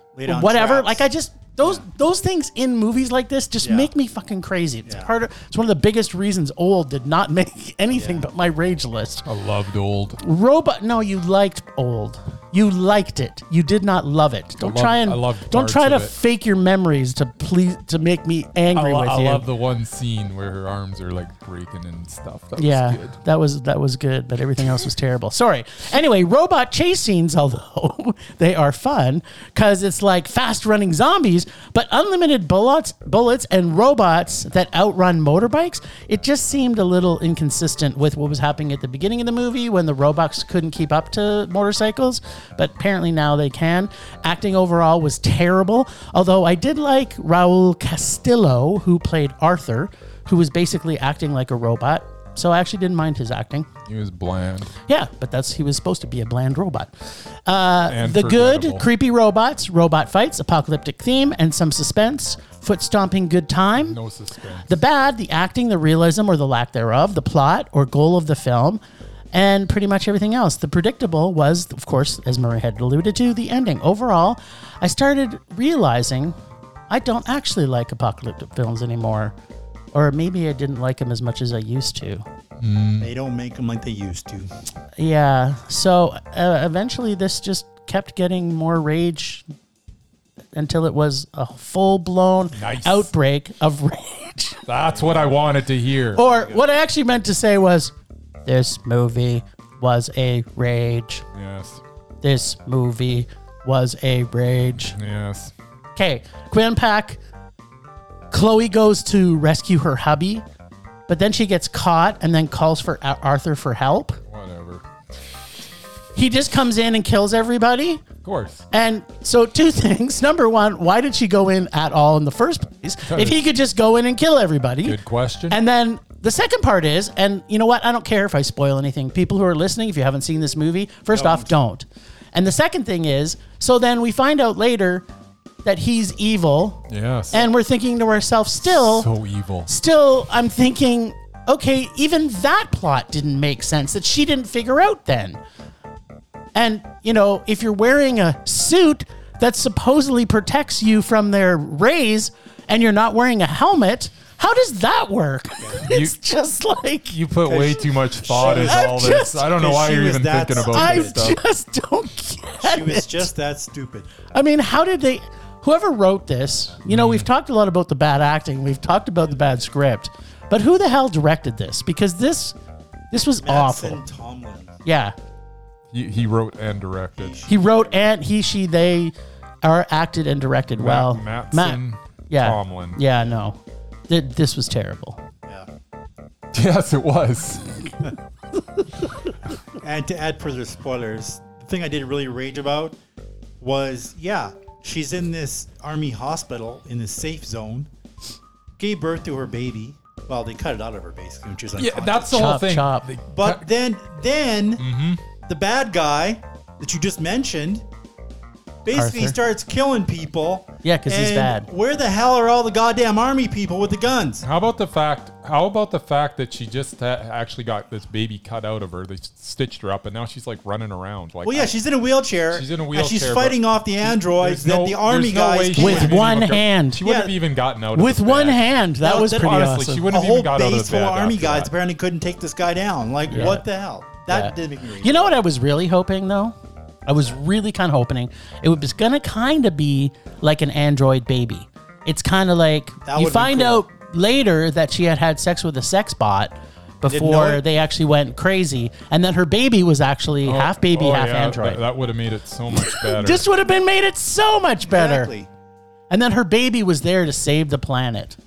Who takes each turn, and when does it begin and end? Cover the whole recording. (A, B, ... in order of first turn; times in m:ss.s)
0:00.2-0:01.1 A
0:00.3-0:09.3 B
0:03.6-0:03.9 A
0:04.9-0:05.1 A
0:07.9-0:08.3 A
0:09.3-0:10.2 C
0:10.2-0:19.4 B
0:14.6-0:16.1 C
0:18.7-0:23.2 C
0:22.6-0:53.7 B
0:53.9-0:54.7 C
0:54.9-0:56.9 B
0:57.5-1:04.0 B
0:57.9-0:58.9 C
1:03.8-1:04.7 C
1:04.7-1:08.8 B
1:09.3-1:16.4 B
1:16.9-1:19.3 B
1:19.9-1:22.2 B
1:22.6-1:23.1 C
1:23.0-1:24.5 A
1:25.0-1:29.4 B
1:30.6-1:34.6 B
1:32.6-1:33.1 C
1:34.7-1:36.2 C
1:34.9-1:35.6 A
1:36.2-1:36.6 A
1:36.2-1:37.9 B
1:38.5-1:41.2 B
1:41.3-1:41.8 C
1:42.2-1:44.9 B
1:44.9-1:45.5 C
1:46.0-1:47.2 B
1:48.3-1:50.4 B
1:51.1-1:54.2 B
1:54.3-1:54.8 C
1:56.2-1:58.0 B
1:58.2-1:58.6 C
1:58.7-2:05.0 B
2:03.1-2:03.4 C
2:04.8-2:05.6 C
2:05.5-2:15.0 B
2:11.1-2:11.6 A
2:15.6-2:19.1 B
2:16.9-2:17.5 C
2:18.6-2:19.7 C
2:19.7-2:25.4 B
2:26.6-2:37.2 B
2:35.6-2:35.9 A
2:35.9-2:36.2 C
2:37.1-2:41.4 C
2:37.5-2:41.4 A
2:38.4-2:39.5 B
2:40.6-2:43.3 B
2:42.6-2:44.2 A
2:44.3-2:52.6 B
2:46.9-2:47.3 C
2:49.3-2:49.6 A
2:53.1-2:54.0 B
2:53.4-2:54.8 A
2:54.8-2:55.2 B
2:55.9-2:57.4 C
2:57.2-2:57.7 A
2:57.5-3:05.2 B
3:00.8-3:03.0 C
3:06.5-3:07.8 C
3:09.8-3:13.0 A
3:13.6-3:17.9 A
3:18.8-3:22.6 A
3:21.8-3:23.6 C
3:22.3-3:23.1 B
3:23.3-3:24.9 A
3:24.8-3:25.2 C
3:25.4-3:27.9 A
3:28.8-3:34.4 A
3:28.9-3:29.4 B
3:30.8-3:31.7 B
3:34.4-3:41.7 C
3:41.4-3:46.2 A
3:42.5-3:51.7 C
3:45.8-3:47.0 B
3:47.0-3:47.4 A
3:48.0-3:50.1 B
3:49.0-3:49.6 A
3:50.1-3:55.4 A
3:53.3-3:53.6 C
3:53.3-3:53.6 B
3:54.3-3:56.6 B
3:57.1-4:11.8 B
4:03.0-4:03.9 A
4:07.1-4:07.6 A
4:10.4-4:13.5 C
4:12.8-4:15.3 B
4:14.8-4:15.5 A
4:16.1-4:18.4 B